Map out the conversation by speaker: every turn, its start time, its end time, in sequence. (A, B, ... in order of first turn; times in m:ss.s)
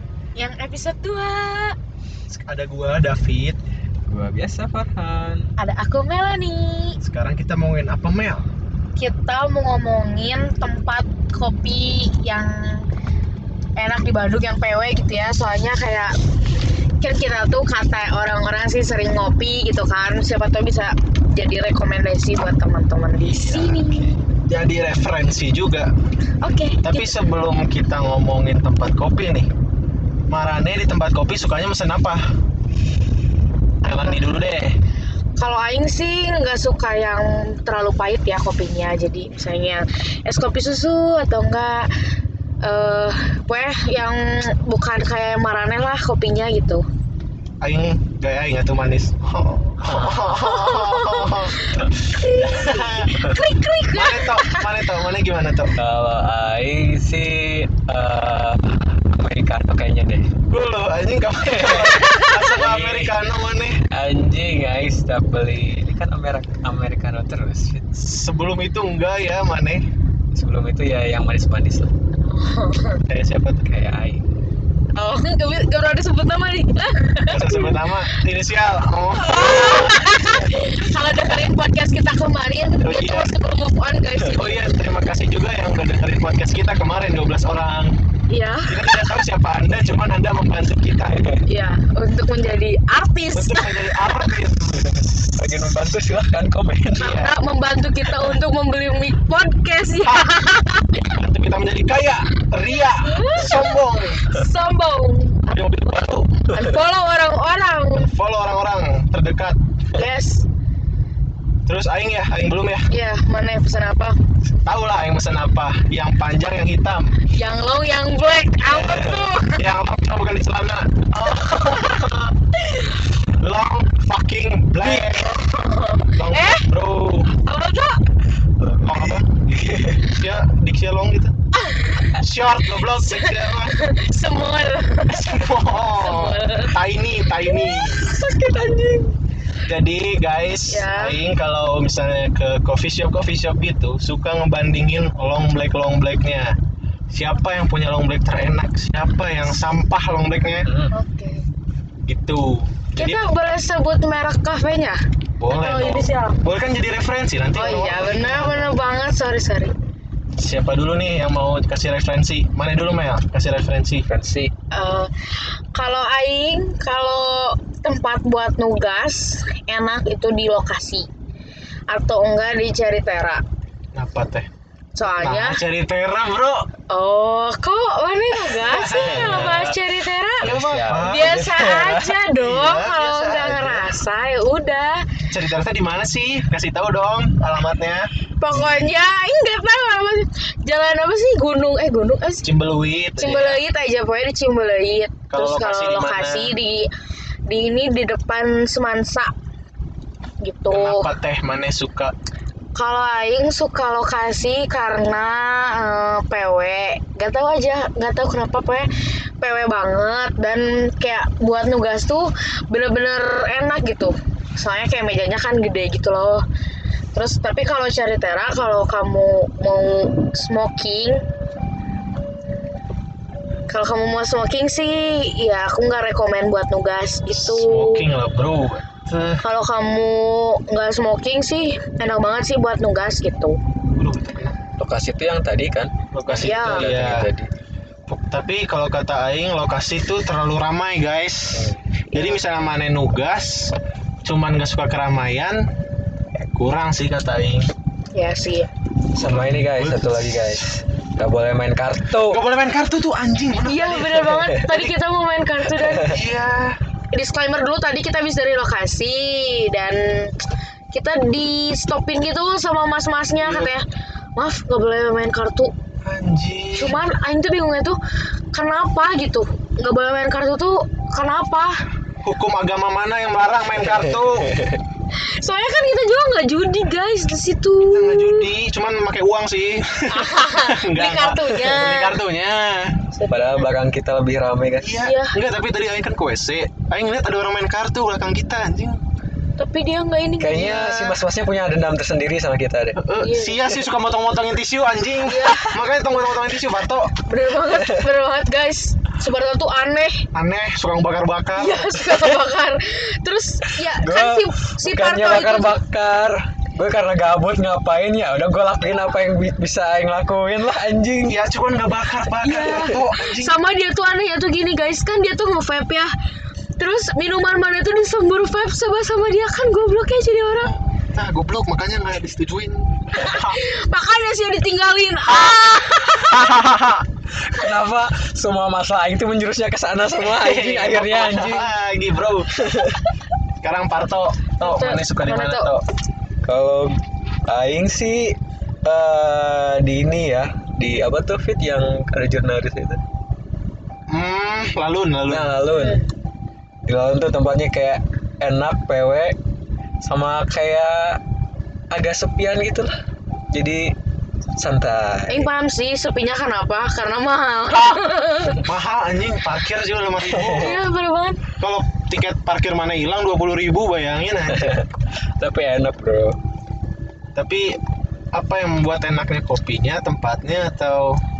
0:00.4-0:01.8 A
0:02.3-0:03.6 B
0:04.1-0:05.5 C
0:05.6-0:07.0 A
0:07.0-0:08.5 B
0:09.0-0:12.9 A
0:13.8-0:16.2 A
0:17.0-0:24.2 A
0:23.3-0:25.9 B
0:26.4-0:27.2 A
0:26.8-0:29.5 B
0:30.3-0:32.3 B
0:33.8-0:34.8 B
0:33.9-0:34.2 A
0:35.4-0:41.9 A
0:42.6-0:46.8 A
0:47.6-0:53.3 B
0:49.8-0:50.4 C
0:50.3-0:54.8 A
0:53.9-0:55.7 B
0:55.8-1:00.3 C
1:00.5-1:03.8 B
1:01.4-1:03.2 C
1:02.0-1:02.6 A
1:03.9-1:07.9 C
1:07.9-1:09.8 B
1:10.3-1:11.9 C
1:12.3-1:13.0 A
1:13.0-1:13.7 B
1:13.6-1:14.2 C
1:14.9-1:18.2 A
1:17.3-1:20.0 B
1:19.2-1:24.7 A
1:22.8-1:23.3 B
1:24.2-1:28.0 B
1:28.3-1:29.0 A
1:28.7-1:31.2 B
1:31.1-1:31.4 C
1:31.4-1:34.2 A
1:33.3-1:35.6 B
1:35.3-1:37.2 C
1:37.0-1:37.3 B
1:37.0-1:41.2 A
1:40.0-1:40.4 B
1:41.1-1:44.2 B
1:42.6-1:45.6 A
1:45.5-1:46.5 B
1:46.5-1:48.1 A
1:48.0-1:49.6 B
1:49.9-1:50.4 A
1:51.6-1:52.9 B
1:52.9-1:54.2 A
1:54.6-1:57.2 B
1:57.3-1:59.6 A
1:58.7-2:05.4 B
2:04.8-2:06.7 A
2:06.2-2:07.4 B
2:07.4-2:08.0 A
2:08.6-2:10.1 C
2:08.8-2:11.3 B
2:11.5-2:12.0 A
2:12.1-2:13.8 B
2:12.8-2:15.4 A
2:15.1-2:18.1 B
2:16.0-2:16.8 A
2:17.4-2:18.3 A
2:18.0-2:19.1 C
2:19.6-2:26.6 B
2:20.7-2:21.2 A
2:27.1-2:30.7 B
2:30.6-2:30.9 C
2:30.9-2:31.4 A
2:32.0-2:33.2 B
2:33.0-2:36.4 A
2:35.4-2:38.7 B
2:37.5-2:39.8 A
2:40.4-2:44.1 B
2:44.0-2:44.5 C
2:44.7-2:45.1 A
2:45.7-2:51.1 A
2:51.9-2:53.4 A
2:53.9-2:54.5 B
2:55.0-2:55.6 A
2:55.1-2:56.7 B
2:56.9-3:05.2 A
2:58.6-2:59.7 B
2:59.0-2:59.7 C
3:00.4-3:01.5 B
3:00.4-3:02.2 C
3:02.2-3:04.0 B
3:05.3-3:08.9 B
3:08.4-3:12.4 A
3:12.4-3:13.6 B
3:13.2-3:16.9 A
3:15.3-3:16.5 B
3:17.5-3:19.3 A
3:20.4-3:21.1 A
3:20.7-3:22.1 B
3:22.7-3:28.9 A
3:29.4-3:36.4 A
3:37.1-3:41.2 A
3:43.7-3:48.0 A
3:47.3-3:49.4 B
3:49.4-3:53.6 A
3:53.9-3:54.6 B
3:54.8-3:57.5 C
3:56.1-3:57.3 B
3:56.3-3:56.9 A
3:58.1-4:05.7 B
4:01.5-4:01.8 C
4:02.1-4:02.4 A
4:06.4-4:07.7 B
4:08.1-4:08.7 A
4:09.1-4:12.4 C
4:09.2-4:10.6 B
4:12.3-4:14.9 B
4:13.6-4:16.2 A
4:15.9-4:16.8 B
4:17.1-4:20.4 A
4:20.9-4:25.7 A
4:23.4-4:23.7 B
4:26.0-4:27.0 B
4:26.7-4:28.0 A
4:28.5-4:31.8 A
4:32.2-4:34.5 B
4:33.8-4:34.8 C
4:35.2-4:38.5 A
4:37.9-4:43.0 B
4:40.1-4:42.1 A
4:43.1-4:43.7 A
4:43.3-4:45.0 C
4:44.8-4:49.0 B
4:45.0-4:45.4 A
4:49.6-4:50.8 A
4:50.4-4:53.0 C
4:50.5-4:51.2 B
4:53.0-4:57.2 B
4:53.2-4:53.6 A
4:55.2-4:55.7 A
4:57.2-5:00.3 A
5:00.3-5:02.3 B
5:01.6-5:05.8 A
5:03.8-5:11.4 C
5:11.2-5:13.6 B
5:12.4-5:16.1 A
5:16.8-5:20.7 A
5:20.6-5:23.6 B
5:23.1-5:26.5 A
5:25.4-5:27.0 B
5:27.4-5:31.7 C
5:30.2-5:32.8 B
5:32.6-5:33.0 C
5:33.6-5:35.8 B
5:34.6-5:35.7 A
5:36.4-5:43.0 C
5:44.1-5:45.6 B
5:45.3-5:46.0 C
5:45.8-5:46.1 A
5:46.9-5:49.4 C
5:50.0-5:51.2 C
5:51.9-5:52.9 C
5:53.5-5:53.9 C
5:54.6-5:55.5 C
5:55.3-5:58.6 A
5:58.5-6:00.8 B
6:00.2-6:00.8 C
6:00.5-6:01.4 A
6:01.6-6:04.8 B
6:04.5-6:06.4 C
6:07.3-6:07.8 B
6:08.3-6:11.2 B